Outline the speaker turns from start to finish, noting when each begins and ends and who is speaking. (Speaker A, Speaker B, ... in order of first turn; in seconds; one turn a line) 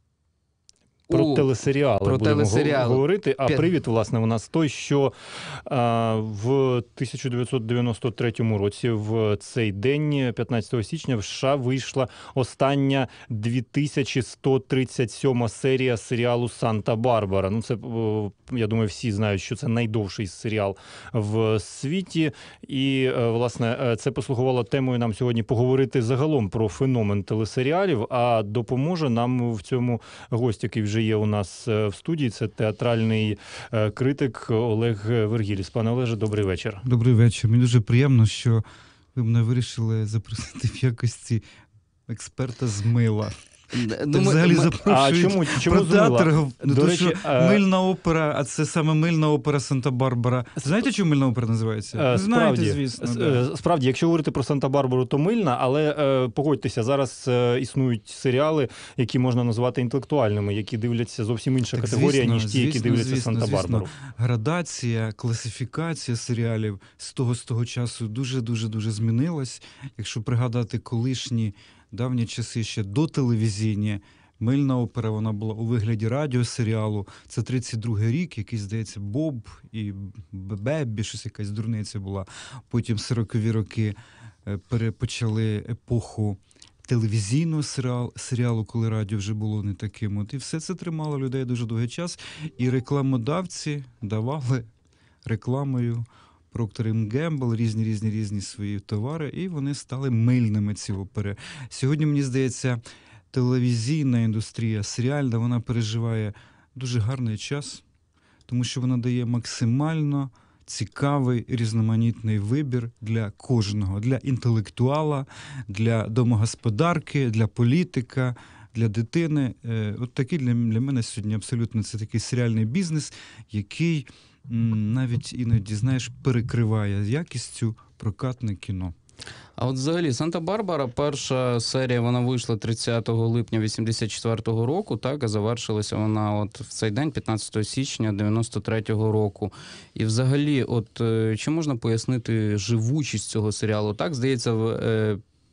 Speaker A: 1.1-1.5
Speaker B: 1.1-5.1
Speaker A: 2.0-3.7
Speaker B: 5.7-36.8
Speaker C: 36.8-38.6
Speaker C: 39.1-41.4
Speaker C: 42.1-43.3
Speaker A: 43.7-44.8
Speaker C: 44.1-53.4
Speaker B: 44.8-47.6
Speaker B: 51.9-63.9
Speaker C: 61.7-94.7
Speaker C: 95.2-102.8
Speaker C: 103.3-107.8
Speaker C: 108.5-128.9
Speaker A: 129.6-145.2